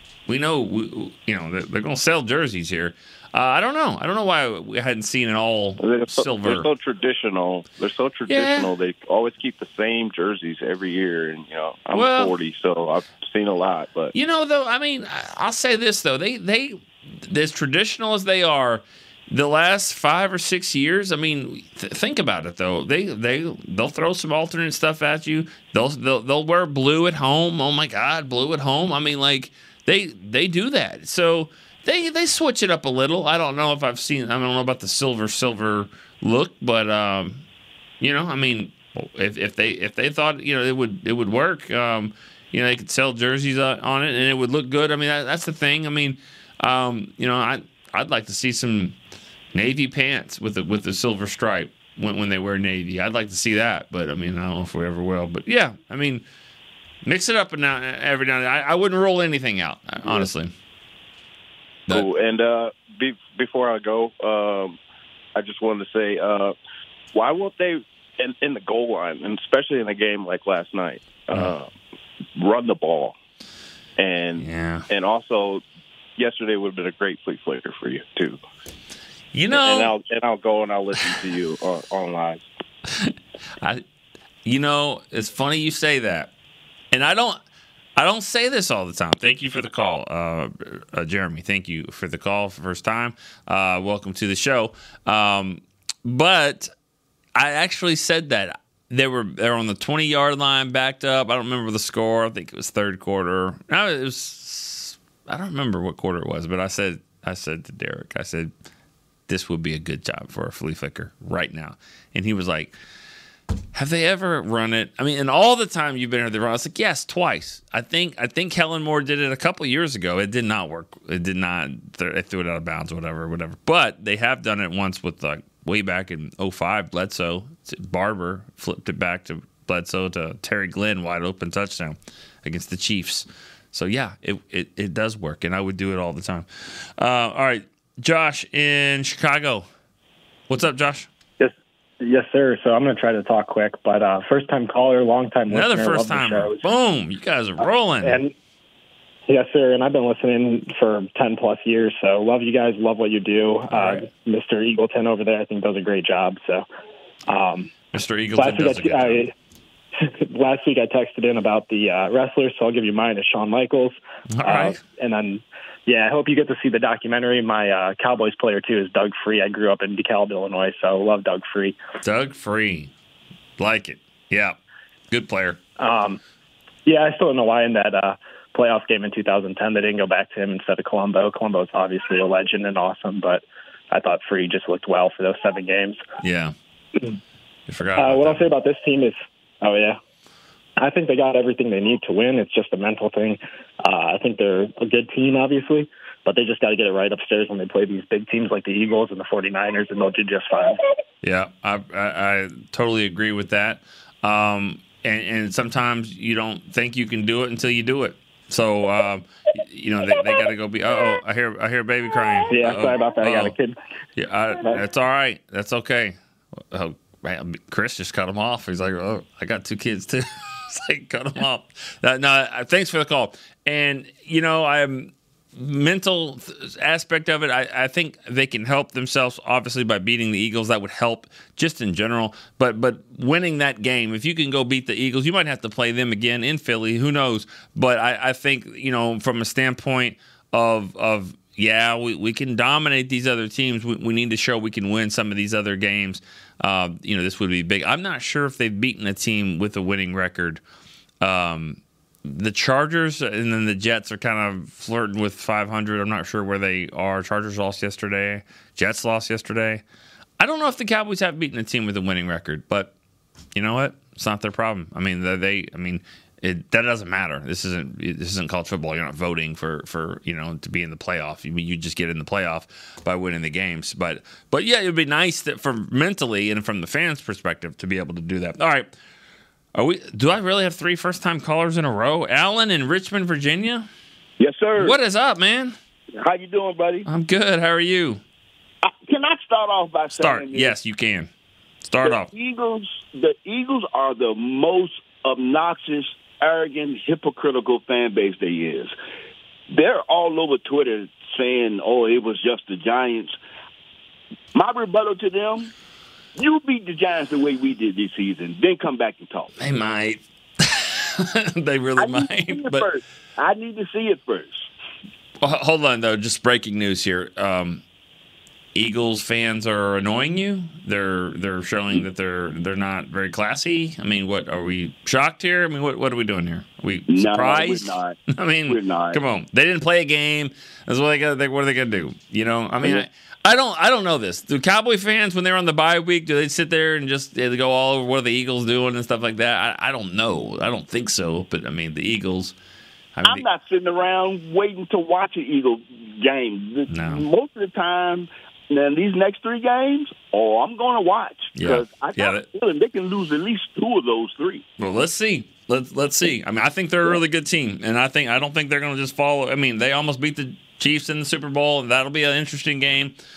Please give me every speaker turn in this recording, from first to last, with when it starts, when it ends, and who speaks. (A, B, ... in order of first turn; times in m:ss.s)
0:00.3-0:06.7 A
0:05.8-0:14.1 B
0:08.3-0:08.7 A
0:11.9-0:12.4 A
0:14.1-0:37.4 A
0:38.0-0:49.0 A
0:49.5-0:56.2 A
0:57.0-1:00.5 A
1:01.9-1:04.8 B
1:05.4-1:06.5 B
1:07.1-1:11.7 B
1:12.4-1:13.1 B
1:14.0-1:15.6 B
1:14.4-1:14.8 A
1:16.2-1:18.4 B
1:19.3-1:19.9 A
1:19.5-1:22.4 B
1:22.9-1:23.8 A
1:24.4-1:26.3 A
1:26.9-1:27.4 A
1:28.0-1:36.7 A
1:37.3-1:48.5 A
1:49.3-1:52.8 A
1:53.7-2:19.7 A
2:20.5-2:21.1 A
2:21.4-2:26.6 C
2:25.5-2:28.2 A
2:28.0-2:28.3 C
2:29.3-2:36.6 C
2:33.7-2:34.0 A
2:37.3-2:37.7 C
2:37.9-2:39.2 A
2:38.3-2:39.3 C
2:40.0-2:51.8 C
2:44.3-2:44.8 A
2:52.0-2:52.9 A
2:53.6-2:54.6 A
2:55.1-2:55.6 A
2:55.8-2:56.2 C
2:56.8-3:06.0 C
3:06.2-3:06.5 A
3:07.7-3:08.5 A
3:08.0-3:10.0 C
3:10.8-3:20.8 C
3:21.2-3:33.5 A
3:32.5-3:33.7 C
3:34.2-3:36.2 A
3:36.7-4:10.6 A
4:11.2-4:19.8 A
4:20.4-4:22.9 A
4:23.5-4:38.9 A
4:39.7-4:43.9 A
4:44.4-4:45.0 D
4:44.8-4:45.7 A
4:46.2-4:47.0 D
4:47.0-4:48.2 A
4:48.8-4:50.8 D
4:50.1-4:51.3 A
4:51.8-4:52.3 A
4:52.0-4:58.9 D
4:59.7-5:03.3 D
5:04.5-5:05.7 D
5:06.3-5:09.5 D
5:09.6-5:12.9 A
5:12.0-5:14.7 D
5:15.4-5:17.8 A
5:18.7-5:42.5 A
5:27.1-5:28.2 D
5:28.7-5:29.2 D
5:43.2-5:43.5 A
5:43.2-5:54.6 D
5:46.9-5:47.2 A
5:51.5-5:52.4 A
5:54.8-6:03.1 A